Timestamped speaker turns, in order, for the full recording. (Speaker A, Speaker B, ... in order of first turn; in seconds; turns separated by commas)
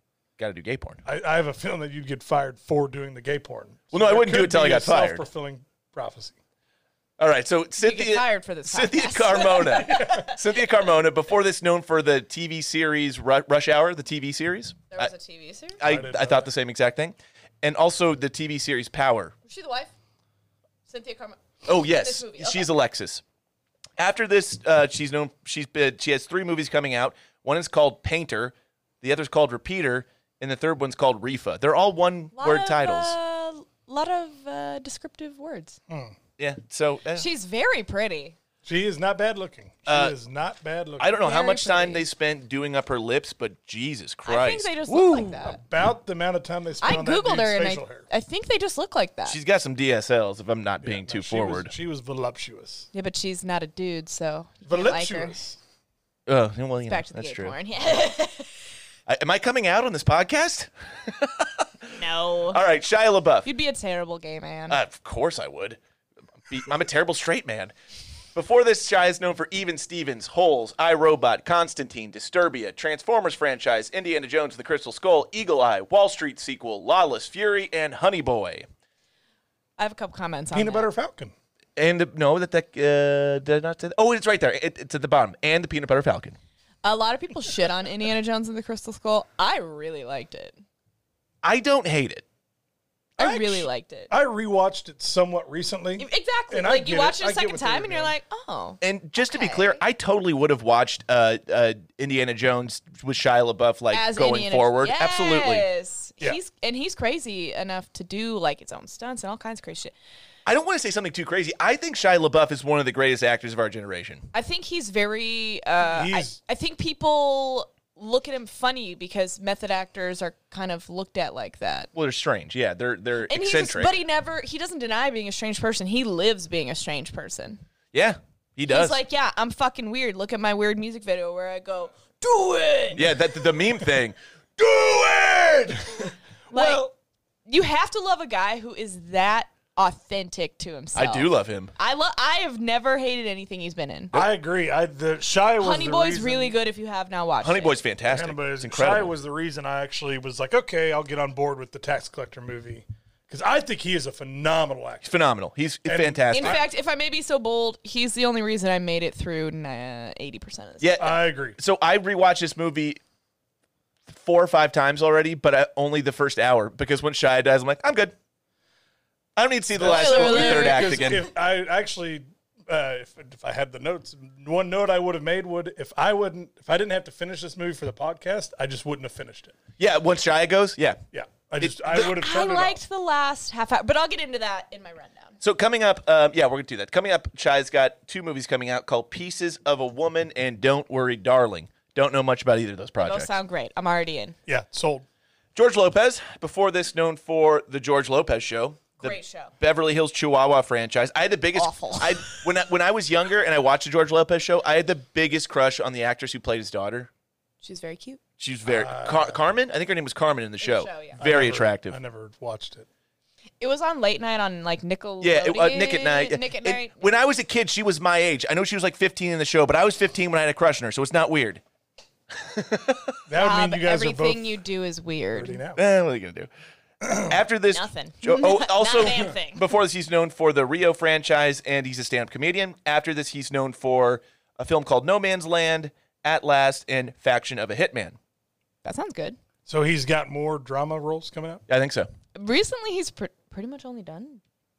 Speaker A: 0.4-1.0, Speaker B: 1.1-6.4, Speaker A: 3.9-5.3, Speaker A: 7.2-15.1, Speaker C: 7.8-10.4, Speaker B: 9.6-10.2, Speaker C: 14.9-15.8, Speaker A: 15.8-19.3, Speaker B: 15.8-16.5, Speaker C: 19.5-19.9, Speaker C: 20.9-22.7, Speaker A: 21.7-23.2, Speaker A: 24.0-33.2, Speaker C: 32.4-35.8, Speaker B: 35.9-36.1, Speaker A: 36.4-37.3, Speaker C: 37.1-38.4, Speaker B: 38.6-41.2, Speaker A: 39.9-40.1, Speaker A: 41.0-45.3, Speaker C: 41.2-42.0, Speaker C: 44.3-45.6, Speaker B: 45.3-48.1, Speaker C: 46.8-49.4, Speaker A: 49.3-51.7, Speaker B: 50.8-52.9, Speaker C: 52.9-55.4, Speaker B: 54.7-55.6, Speaker A: 56.3-57.6, Speaker C: 56.9-58.5, Speaker A: 59.1-63.5, Speaker C: 62.0-62.6, Speaker C: 63.5-64.8, Speaker A: 64.7-65.8, Speaker A: 66.5-67.7, Speaker A: 68.3-78.7, Speaker C: 79.8-80.9, Speaker B: 80.5-81.3, Speaker A: 81.8-86.4, Speaker C: 86.8-90.6, Speaker A: 91.4-92.2, Speaker C: 93.2-94.1, Speaker B: 93.2-98.1, Speaker C: 96.0-99.8, Speaker A: 98.8-105.7, Speaker C: 103.9-109.9, Speaker A: 110.5-114.3, Speaker C: 114.3-121.9, Speaker B: 115.8-116.4, Speaker A: 121.9-124.0, Speaker C: 123.3-127.6, Speaker A: 127.9-129.0, Speaker C: 128.7-133.0, Speaker A: 132.9-134.2, Speaker B: 134.6-136.9, Speaker C: 136.5-136.9, Speaker C: 137.5-144.2, Speaker A: 140.9-141.7, Speaker B: 144.1-146.6, Speaker C: 145.6-147.8, Speaker A: 147.4-149.2, Speaker B: 148.1-155.2, Speaker A: 155.1-156.6, Speaker B: 155.9-156.6, Speaker C: 156.3-161.0, Speaker A: 160.8-163.0, Speaker B: 161.0-161.6, Speaker A: 164.1-168.2, Speaker A: 169.4-171.3, Speaker B: 169.8-179.6, Speaker C: 169.8-171.1, Speaker A: 179.8-181.0, Speaker B: 181.1-182.8, Speaker A: 181.6-182.1, Speaker C: 181.9-185.4, Speaker A: 185.4-193.3, Speaker C: 193.0-194.3, Speaker B: 194.5-195.1, Speaker A: 195.6-207.1, Speaker C: 199.0-199.5, Speaker C: 201.6-202.5, Speaker C: 207.6-208.2, Speaker A: 208.4-212.0, Speaker B: 208.7-209.4, Speaker C: 210.6-211.2, Speaker B: 211.2-212.9, Speaker C: 213.6-217.1, Speaker A: 215.2-221.6, Speaker A: 222.3-223.2, Speaker B: 223.3-224.6, Speaker C: 223.4-225.6, Speaker B: 225.3-225.8, Speaker A: 225.8-226.5, Speaker B: 227.0-227.3, Speaker A: 227.1-238.2, Speaker C: 227.7-229.6, Speaker C: 238.8-239.4, Speaker B: 239.7-241.6, Speaker A: 241.7-242.1, Speaker C: 242.3-244.4